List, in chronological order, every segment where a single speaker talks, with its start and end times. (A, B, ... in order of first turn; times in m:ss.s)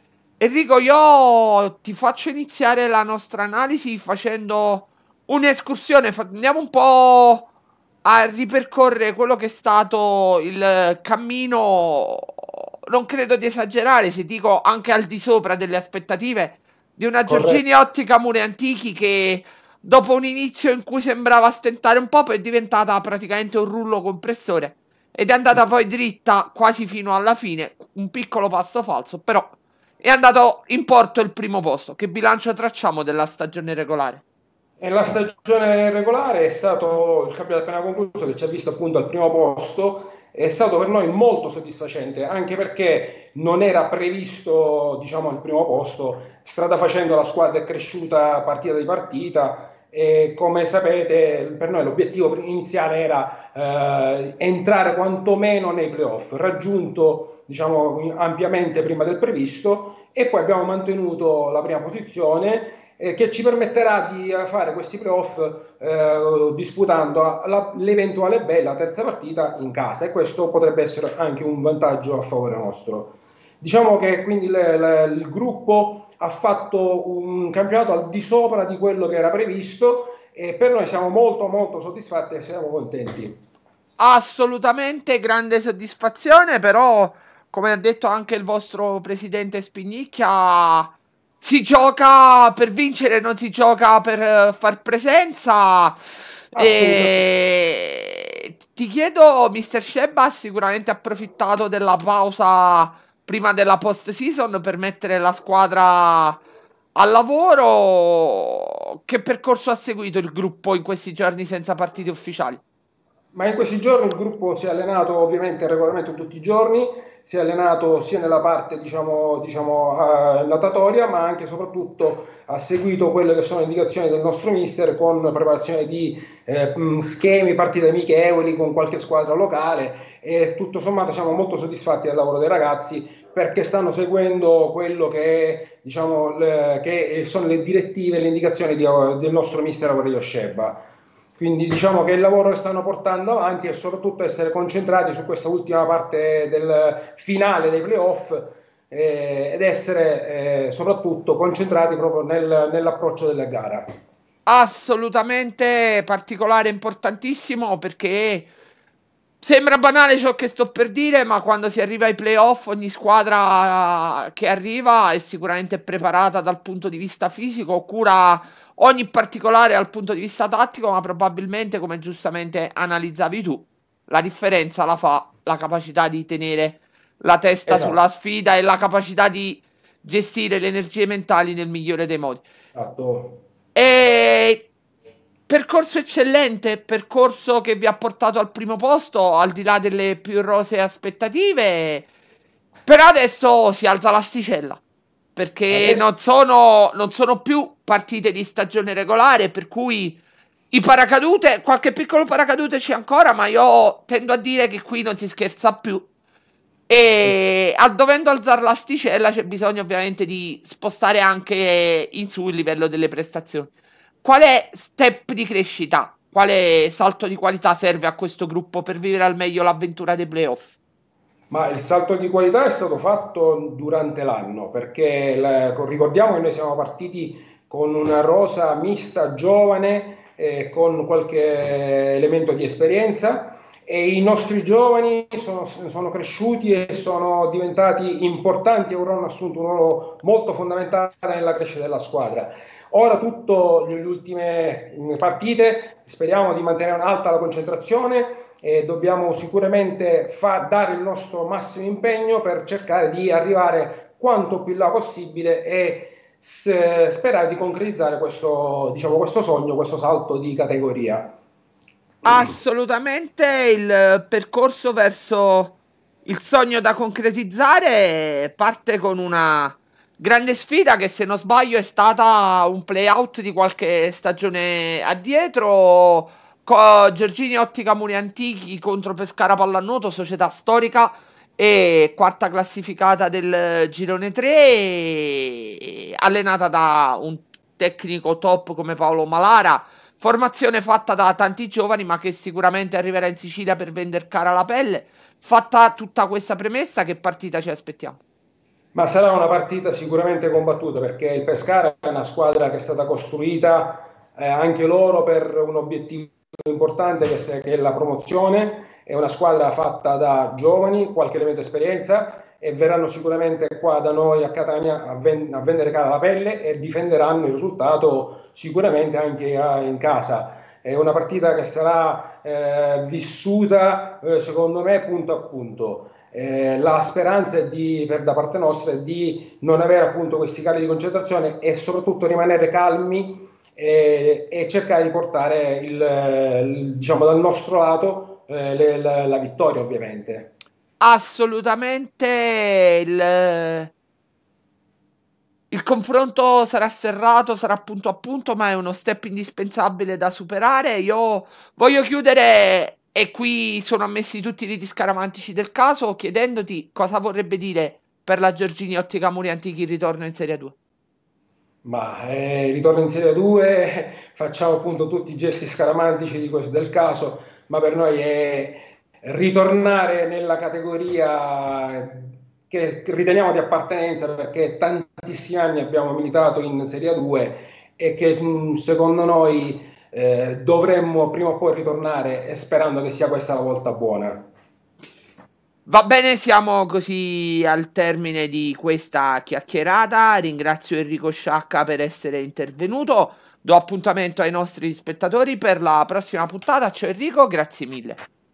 0:00.4-0:07.5 A
0:08.0-0:34.2 A
0:17.3-0:17.6 B
0:34.8-1:23.4 B
1:24.0-1:46.4 A
1:36.5-1:37.3 B
1:47.0-1:52.6 A
1:53.3-2:20.8 B
2:21.4-2:33.9 B
2:34.5-2:38.5 A
2:39.4-3:02.4 A
2:57.7-2:58.0 B
3:02.7-3:03.4 B
3:03.8-3:04.7 A
3:05.5-3:12.1 A
3:12.9-3:14.8 A
3:15.4-3:26.1 A
3:15.7-3:16.2 B
3:26.9-3:33.7 A
3:34.2-3:40.8 A
3:41.5-4:21.4 B
4:22.2-4:58.2 A
4:58.9-5:40.5 B
5:41.0-5:43.9 A
5:45.7-6:00.8 A
6:01.8-6:24.5 B
6:25.9-6:38.2 A